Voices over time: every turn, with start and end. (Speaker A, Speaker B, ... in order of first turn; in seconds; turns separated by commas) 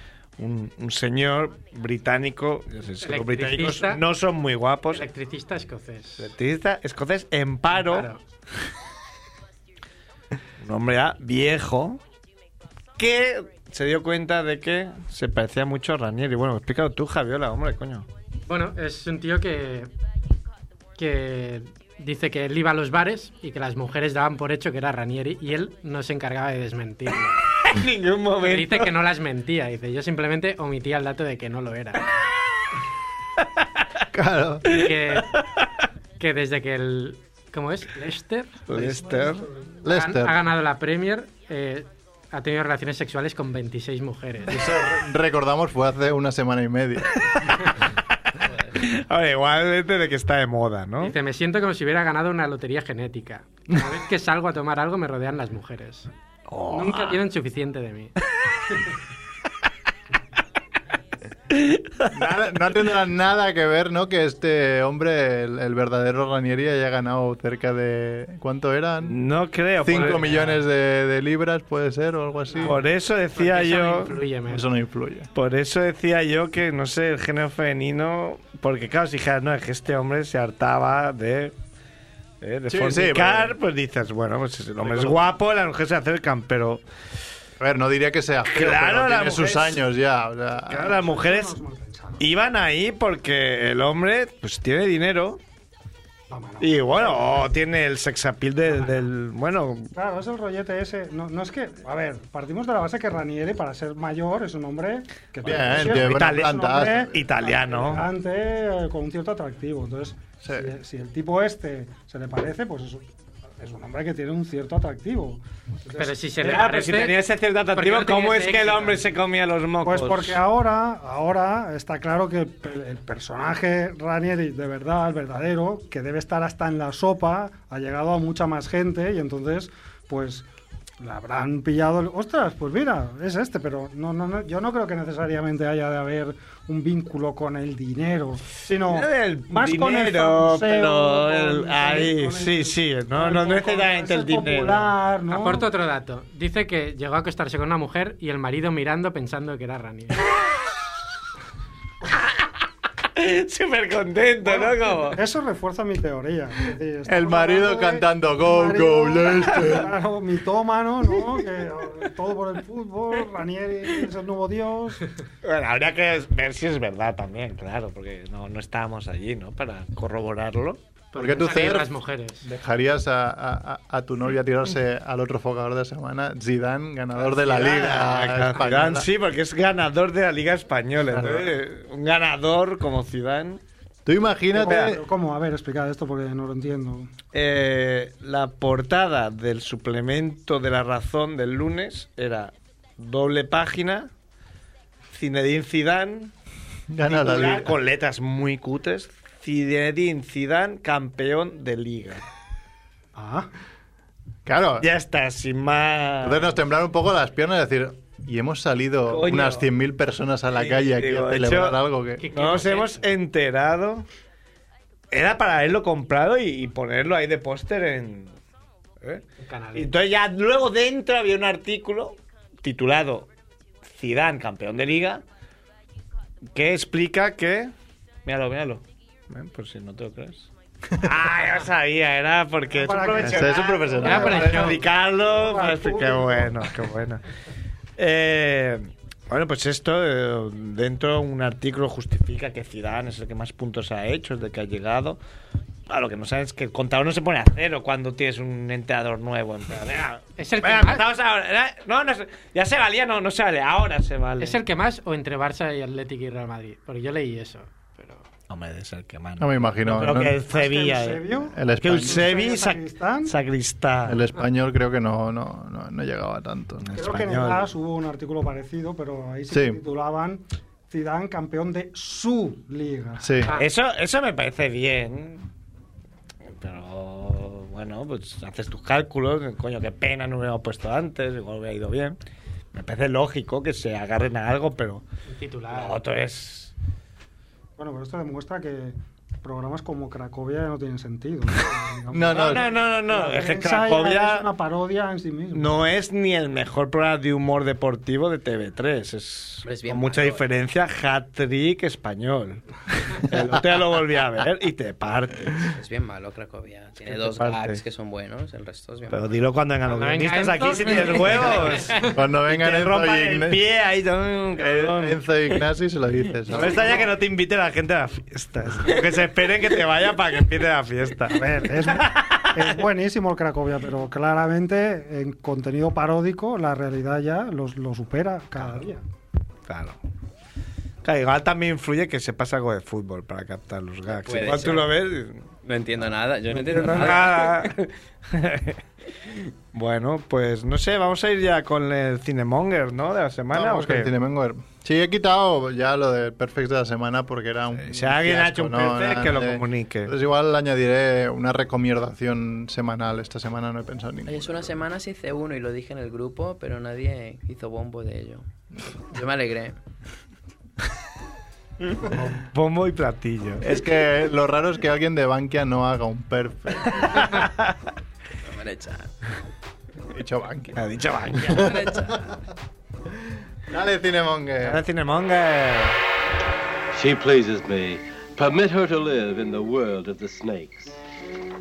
Speaker A: 0.4-5.1, Speaker B: 3.0-4.0, Speaker B: 4.9-6.3, Speaker A: 6.2-8.1, Speaker B: 7.7-8.2, Speaker A: 10.6-12.0, Speaker A: 13.0-18.1, Speaker B: 18.5-19.9, Speaker B: 20.9-27.4, Speaker A: 27.6-28.9, Speaker B: 28.4-32.0, Speaker C: 34.1-34.8, Speaker B: 34.6-35.3, Speaker B: 36.2-38.7, Speaker A: 38.7-39.5, Speaker C: 39.8-40.4, Speaker B: 39.9-44.6, Speaker C: 44.5-47.3, Speaker A: 48.7-51.1, Speaker B: 51.0-56.1, Speaker A: 56.5-57.2, Speaker B: 56.7-58.1, Speaker A: 61.5-62.1, Speaker C: 62.1-69.2, Speaker A: 69.0-70.6, Speaker C: 69.8-72.8, Speaker A: 72.6-74.2, Speaker B: 73.3-74.6, Speaker C: 74.5-75.3, Speaker A: 75.3-81.5, Speaker A: 82.4-86.8, Speaker C: 82.7-83.6, Speaker C: 84.8-85.3, Speaker C: 87.6-91.0, Speaker A: 88.5-89.8, Speaker D: 90.7-92.2, Speaker A: 90.7-91.6, Speaker A: 92.2-95.4, Speaker D: 96.3-97.5, Speaker A: 96.6-99.9, Speaker D: 98.7-99.0, Speaker D: 99.9-113.0, Speaker C: 105.4-107.2, Speaker A: 105.5-108.0, Speaker C: 110.4-110.7, Speaker D: 113.6-116.1, Speaker B: 115.9-117.2, Speaker A: 116.4-120.4, Speaker B: 117.7-119.0, Speaker D: 119.8-130.5, Speaker D: 131.0-145.7, Speaker A: 138.8-144.9, Speaker B: 145.3-150.2, Speaker A: 153.2-155.2, Speaker D: 155.1-165.1, Speaker C: 157.1-159.9, Speaker A: 165.4-170.8, Speaker B: 171.1-172.4, Speaker C: 171.1-179.1, Speaker A: 177.2-183.6, Speaker C: 181.1-181.5, Speaker C: 184.1-185.0, Speaker D: 184.5-187.1, Speaker A: 184.7-184.9, Speaker A: 187.3-194.1, Speaker A: 195.1-196.3, Speaker C: 196.9-197.7, Speaker A: 197.1-202.2, Speaker D: 203.2-203.5, Speaker C: 204.4-204.9, Speaker A: 204.8-206.6, Speaker C: 206.2-212.2, Speaker A: 209.1-209.7, Speaker A: 210.5-214.1, Speaker B: 212.2-213.1, Speaker A: 215.1-218.3, Speaker A: 219.0-223.3, Speaker B: 219.4-219.9, Speaker A: 223.8-225.2, Speaker A: 226.5-227.7, Speaker A: 228.2-237.2, Speaker D: 232.7-234.6, Speaker C: 233.2-234.8, Speaker B: 234.0-234.8, Speaker D: 235.3-236.5, Speaker A: 238.0-245.2, Speaker A: 245.9-254.6, Speaker B: 250.4-251.0, Speaker B: 254.4-258.3, Speaker A: 258.5-264.2, Speaker C: 259.4-260.4, Speaker D: 260.5-263.3, Speaker C: 261.5-262.3, Speaker C: 264.1-266.9, Speaker A: 266.8-267.7, Speaker D: 266.9-273.4, Speaker C: 269.5-269.8, Speaker C: 273.2-273.5, Speaker A: 273.5-275.5, Speaker A: 276.6-282.2, Speaker A: 282.7-285.0, Speaker B: 285.2-286.0, Speaker A: 285.7-286.7, Speaker D: 287.8-295.8, Speaker C: 292.1-292.7, Speaker A: 292.3-294.4, Speaker A: 295.5-305.7, Speaker E: 299.6-300.4, Speaker E: 305.7-309.4, Speaker A: 307.0-307.8, Speaker A: 309.1-315.2, Speaker B: 309.8-312.1, Speaker C: 312.0-313.6, Speaker C: 314.6-317.0, Speaker A: 316.5-322.8, Speaker D: 321.3-329.0, Speaker A: 329.7-330.0, Speaker A: 331.0-335.5, Speaker E: 334.1-334.9, Speaker E: 335.6-337.7, Speaker A: 336.5-338.8, Speaker A: 339.7-344.1, Speaker C: 343.5-354.7, Speaker A: 347.8-350.1, Speaker E: 354.2-359.8, Speaker A: 362.0-363.7, Speaker C: 363.6-367.4, Speaker A: 367.0-367.6, Speaker E: 368.4-369.1, Speaker C: 370.1-370.8, Speaker A: 370.8-371.9, Speaker C: 371.4-372.2, Speaker E: 371.5-372.3, Speaker C: 373.7-374.8, Speaker A: 374.6-376.0, Speaker F: 376.9-381.0